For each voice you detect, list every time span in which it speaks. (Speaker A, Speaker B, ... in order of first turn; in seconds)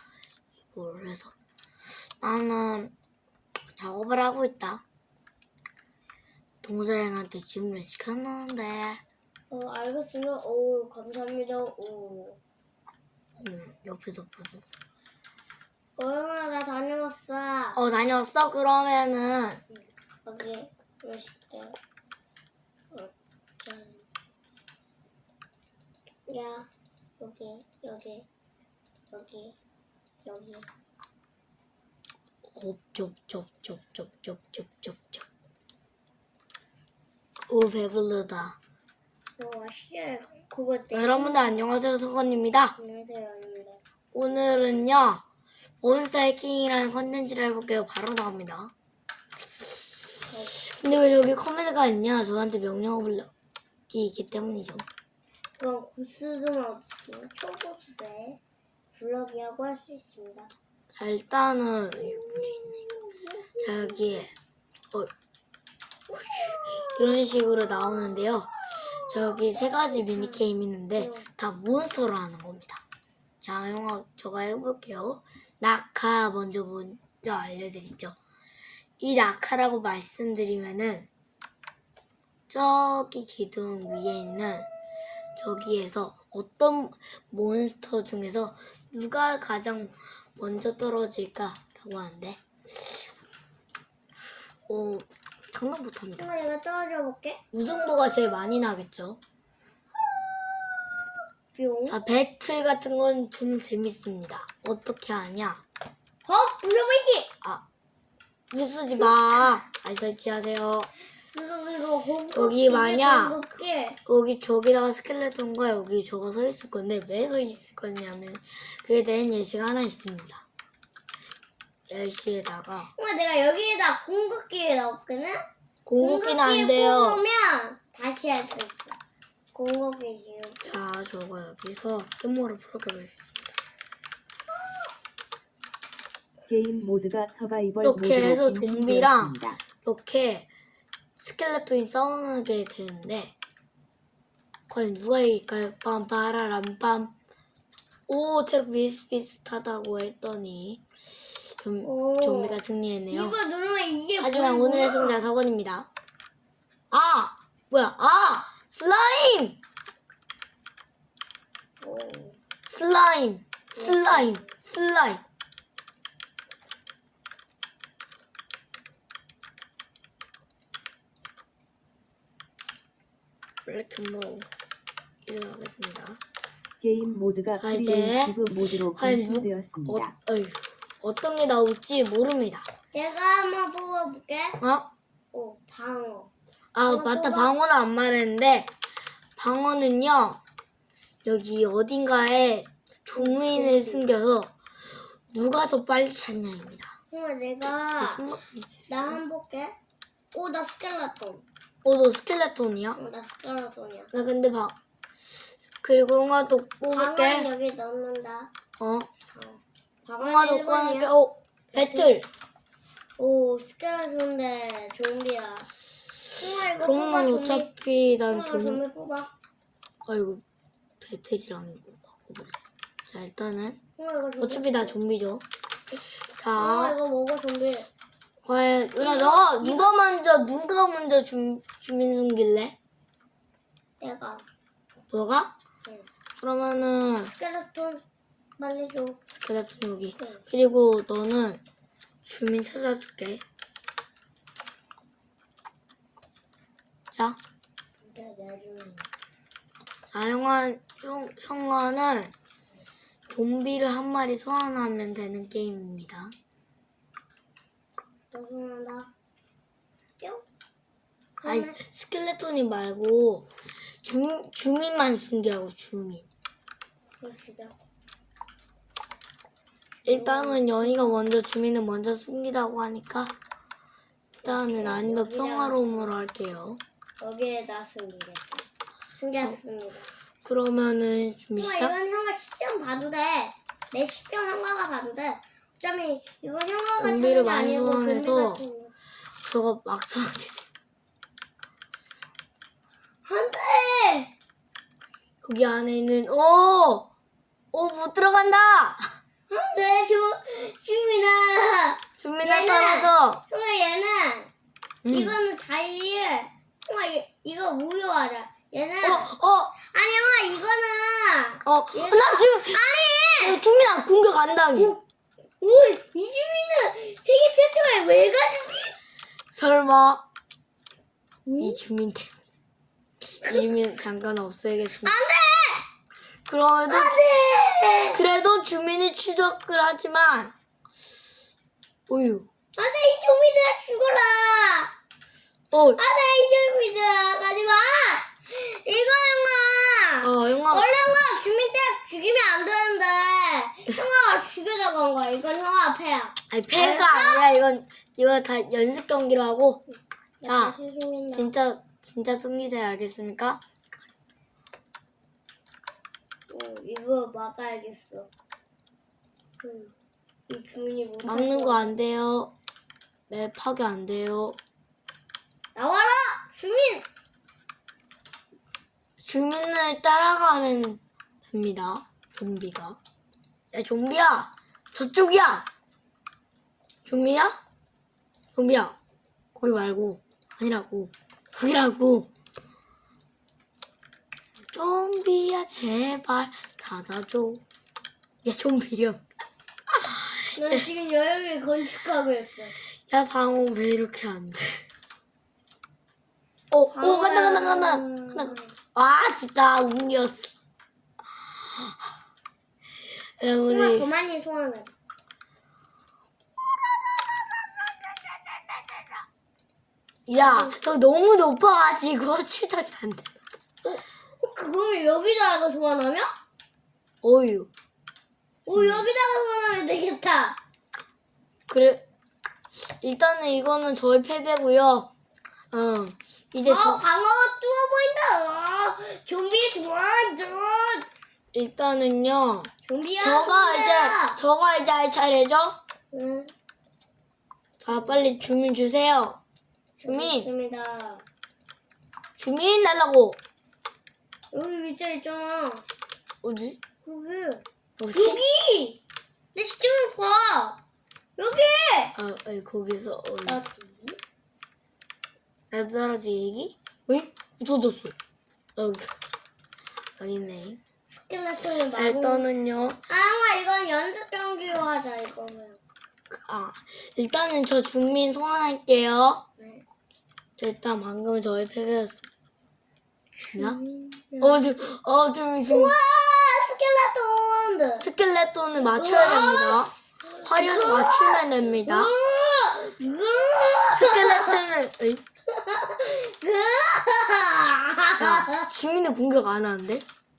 Speaker A: 0.6-1.3, 2.2-2.9, 3.7-4.8, 6.6-9.0, 13.4-14.6, 17.8-19.6, 32.5-35.2, 37.5-38.6, 40.9-42.8, 44.1-45.2, 45.8-48.7, 50.6-53.3, 53.9-54.9, 60.9-62.9, 63.6-64.3, 66.3-72.8, 73.4-78.2, 79.0-81.1, 82.5-84.7, 85.4-92.9, 94.7-96.4, 97.5-99.2, 101.9-105.6, 108.5-110.9, 112.3-113.4, 114.1-120.5, 121.9-122.9, 125.9-127.2, 130.6-133.5, 137.8-140.5, 141.2-143.3, 144.7-147.2, 148.1-150.8, 151.4-153.4, 154.2-155.9, 156.9-159.6, 162.7-165.2, 173.7-174.5, 175.3-176.2, 177.6-182.7, 184.6-184.9, 186.7-188.7, 189.4-190.4, 191.2-194.5, 195.3-196.9, 198.0-199.2, 201.8-203.0, 204.1-204.8, 205.8-207.5, 208.8-209.1, 210.2-212.3, 216.8-218.8, 220.1-220.4, 221.0-223.8, 224.4-225.4, 226.4-227.0, 228.5-232.8, 235.1-235.5, 236.4-237.3, 239.3-241.6, 242.2-243.4, 247.1-247.4, 250.1-252.3, 253.3-256.3, 261.4-266.3, 270.1-273.3, 274.4-276.8, 280.4-281.9, 287.0-288.6, 289.4-290.7, 295.4-297.1, 297.7-299.1, 302.2-303.4, 305.1-305.4, 309.0-309.8, 311.6-312.8, 313.4-314.9, 319.5-320.2, 321.6-322.3, 323.4-325.2, 326.5-327.2, 327.8-330.5, 332.1-332.5, 335.7-336.0, 340.2-340.9, 346.5-349.8, 350.4-350.8, 351.3-353.6, 361.2-362.5, 363.3-364.6, 369.2-373.0, 373.7-375.7, 377.1-377.6, 378.6-379.0, 379.6-382.3, 384.7-387.6, 388.4-389.2, 389.9-390.8, 393.1-394.8, 396.7-400.5, 401.5-402.0, 403.4-404.1, 406.9-407.5, 410.3-413.3, 417.2-417.7, 418.8-419.1, 421.7-422.1, 422.9-425.1, 425.7-427.0, 431.5-435.8, 437.8-439.4, 440.1-440.5, 442.4-443.4, 446.4-446.8, 448.0-448.4, 452.2-453.6, 455.7-458.1, 458.8-459.1, 460.2-460.8, 461.9-463.0, 466.3-469.4, 470.6-472.2, 473.5-473.8, 474.4-475.9, 478.0-482.1, 483.8-485.2, 488.2-490.1
Speaker B: 9.5-12.4, 16.0-17.8, 20.3-21.8, 23.6-24.0, 26.3-26.7, 27.2-28.3, 29.1-29.6, 30.2-30.7, 39.4-41.6, 42.8-43.8, 50.3-50.6, 55.6-58.4, 58.9-60.5, 62.0-64.0, 69.9-71.3, 96.2-97.5, 100.0-102.0, 106.2-107.3, 111.3-114.0, 123.0-125.4, 126.0-129.0, 129.6-130.7, 151.8-152.6, 153.1-155.2, 161.8-162.4, 163.8-164.5, 182.9-184.6, 185.3-186.3, 186.9-187.5, 193.2-194.1, 197.1-198.2, 198.9-199.8, 200.3-201.4, 203.0-204.1, 206.9-208.5, 209.3-211.1, 211.7-212.1, 213.2-215.7, 216.3-217.7, 218.3-219.3, 224.0-225.0, 226.6-227.9, 229.0-229.9, 234.0-234.4, 237.2-238.0, 238.6-239.2, 240.2-240.4, 248.1-249.1, 258.3-259.1, 261.4-261.8, 267.2-267.8, 270.1-271.3, 274.4-276.2, 277.2-280.1, 281.6-288.9, 293.2-294.3, 299.5-304.5, 305.1-313.6, 314.8-315.0, 315.6-319.0, 321.5-321.8, 325.0-325.9, 326.9-328.2, 332.8-334.9, 336.0-347.4, 350.4-351.5, 356.5-358.3, 359.6-359.9, 360.5-361.9, 365.8-367.1, 390.6-392.8, 396.9-398.7, 403.7-404.9, 410.4-410.8, 413.9-416.3, 418.7-420.6, 426.6-431.1, 432.8-434.4, 436.1-436.5, 437.9-438.2, 440.0-441.2, 444.5-445.9, 447.1-449.0, 449.6-450.8, 451.4-452.2, 453.5-454.2, 461.1-462.5, 463.1-465.8, 469.6-469.8, 473.4-474.6, 475.7-478.1, 478.8-484.6, 485.5-488.6
Speaker C: 136.5-139.6, 176.8-180.1